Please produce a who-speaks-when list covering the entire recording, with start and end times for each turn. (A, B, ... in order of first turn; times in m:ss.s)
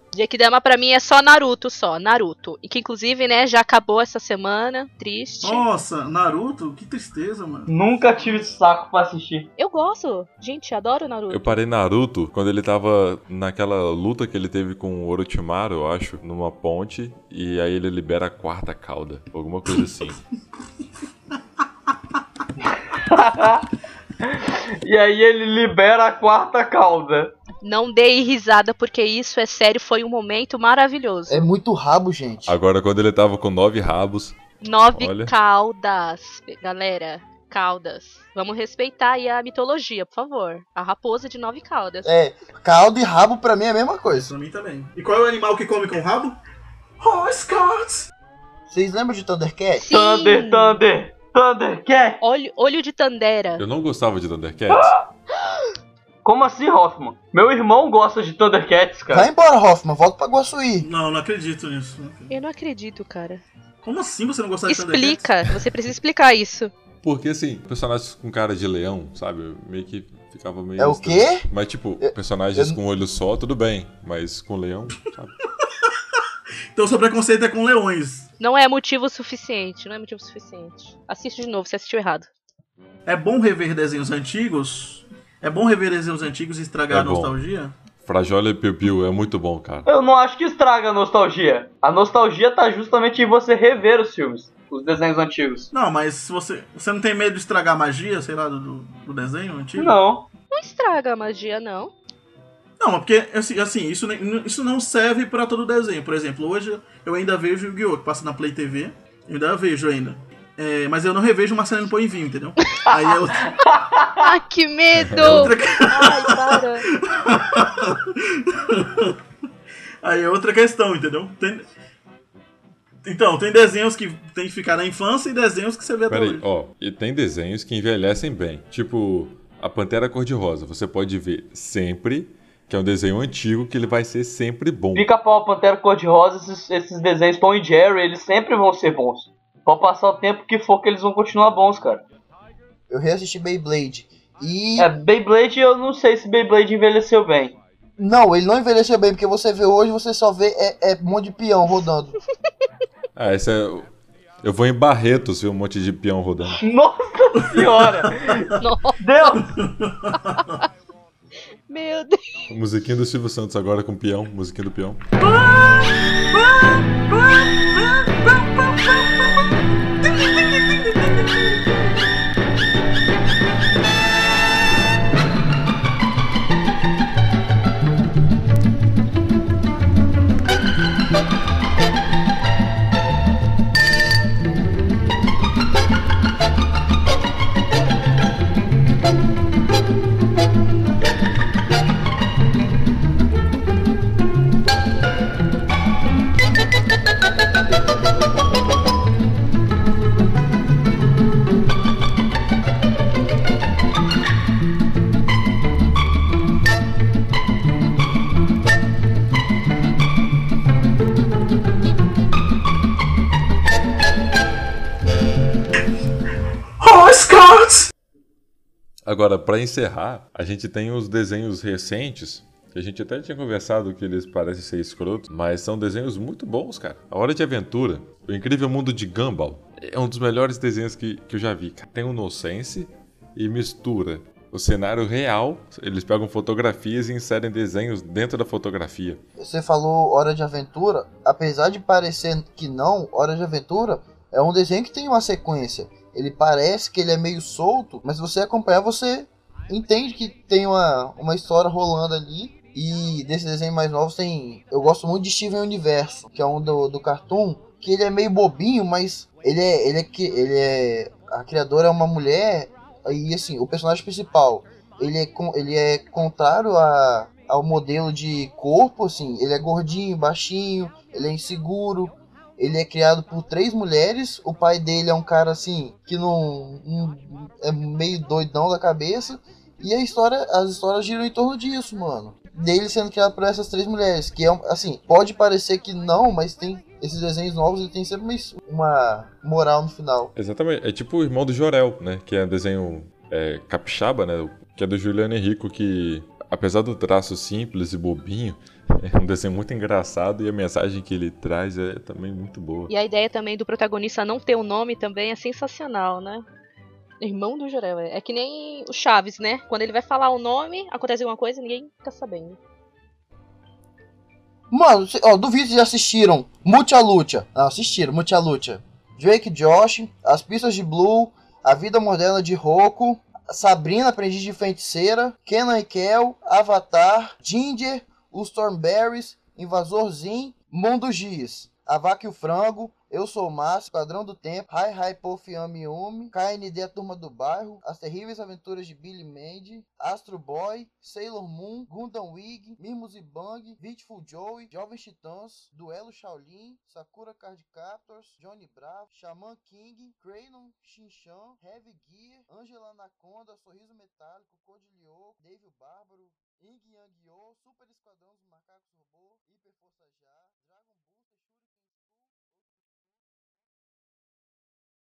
0:00.1-0:05.6 A
0:05.4-0:08.5 B
0:07.7-0:09.5 C
0:09.6-0:11.5 A
0:11.3-0:20.2 D
0:22.7-0:23.7 C
0:24.2-0:27.3 C
0:27.6-0:31.5 A
0:31.3-0:32.6 E
0:32.5-0:34.4 D
0:34.6-0:42.1 A
0:34.9-0:35.3 D
0:42.0-0:44.3 E
0:44.1-0:46.4 B
0:47.0-0:48.1 B
0:48.7-0:49.9 E
0:49.8-0:50.8 A
0:49.9-0:52.2 C
0:52.2-0:53.6 A
0:53.6-0:54.9 D
0:54.7-0:55.0 C
0:56.2-0:59.3 C
0:59.1-1:00.9 E
1:00.8-1:02.3 B
1:02.3-1:03.4 A
1:03.8-1:05.6 B
1:04.7-1:06.7 A
1:07.0-1:15.3 D
1:10.8-1:11.4 E
1:12.0-1:12.8 E
1:16.7-1:18.3 B
1:18.4-1:22.3 A
1:23.0-1:27.7 B
1:26.9-1:27.4 D
1:28.0-1:29.9 D
1:29.8-1:35.7 C
1:35.7-1:40.0 B
1:39.8-1:40.2 C
1:40.5-1:41.9 A
1:42.8-1:53.4 B
1:52.9-1:54.2 C
1:54.2-1:56.8 A
1:55.1-1:55.4 D
1:55.2-1:59.2 B
2:00.0-2:01.6 B
2:03.0-2:06.4 B
2:06.1-2:15.1 D
2:14.9-2:22.0 C
2:22.9-2:24.9 E
2:24.8-2:27.5 C
2:28.0-2:32.1 E
2:33.1-2:33.9 D
2:34.4-2:36.6 D
2:36.5-2:39.4 C
2:38.6-2:39.0 A
2:39.4-2:40.5 B
2:41.7-2:42.4 A
2:42.5-2:45.0 D
2:45.2-2:49.1 B
3:36.8-3:37.9 B
3:39.0-3:59.2 D
3:59.4-4:50.3 E
4:50.3-5:02.9 D
5:02.9-5:06.4 A
5:07.2-5:12.6 A
5:14.7-6:01.8 E